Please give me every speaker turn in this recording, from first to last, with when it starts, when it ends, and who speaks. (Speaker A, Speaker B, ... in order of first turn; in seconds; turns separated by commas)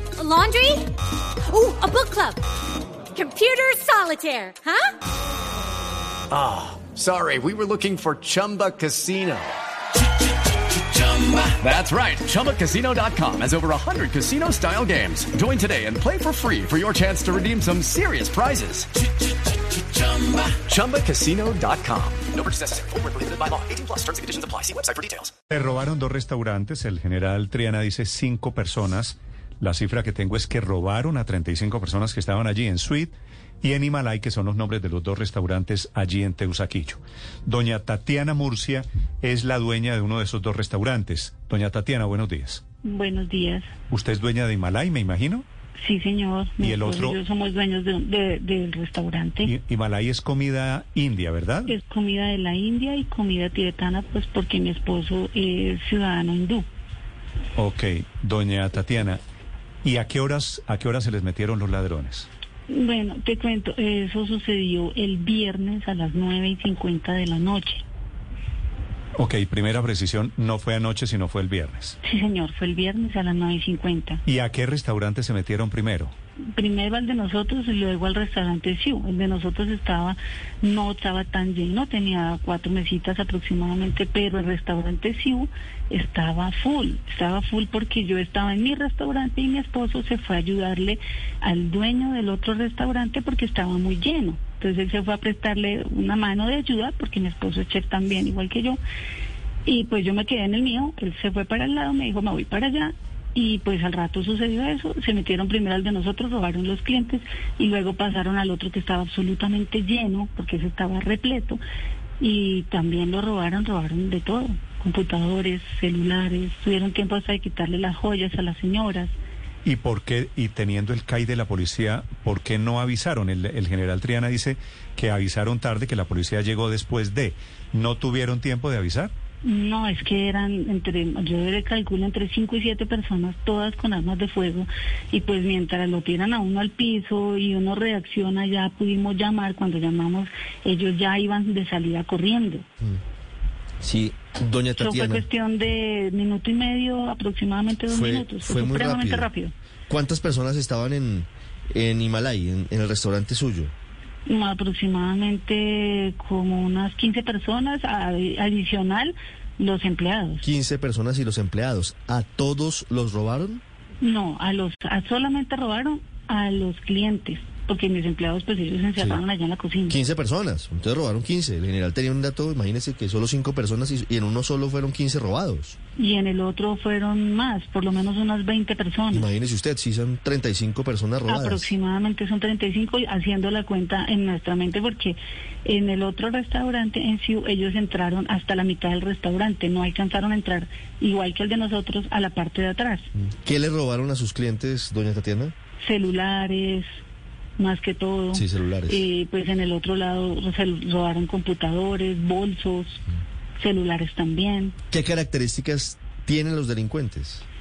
Speaker A: 0.2-0.9, Speaker A: 1.5-2.4, Speaker A: 3.1-4.9, Speaker B: 6.3-9.6, Speaker B: 10.9-18.9, Speaker B: 20.0-25.3, Speaker C: 25.5-42.6, Speaker D: 42.8-43.7, Speaker C: 43.9-45.4, Speaker D: 45.8-49.5, Speaker C: 46.6-47.2, Speaker C: 49.4-51.7, Speaker D: 51.7-56.7, Speaker C: 57.6-59.2, Speaker C: 59.8-62.3, Speaker D: 62.7-67.8, Speaker C: 69.2-72.0, Speaker D: 72.0-74.2, Speaker C: 74.3-76.1, Speaker D: 76.5-98.8, Speaker D: 99.7-111.6, Speaker D: 112.2-119.1, Speaker C: 119.7-129.1, Speaker D: 129.4-142.7, Speaker E: 143.8-145.2, Speaker D: 144.8-149.5, Speaker E: 147.9-149.3, Speaker E: 149.9-153.7, Speaker D: 154.2-160.4, Speaker E: 160.4-163.6, Speaker D: 164.0-170.0, Speaker E: 169.9-175.8, Speaker D: 176.0-179.3, Speaker E: 179.1-181.7, Speaker D: 181.3-193.1, Speaker E: 193.2-195.5, Speaker D: 195.8-196.9, Speaker D: 197.6-203.0, Speaker E: 198.3-199.1, Speaker D: 203.6-204.8, Speaker E: 204.9-207.4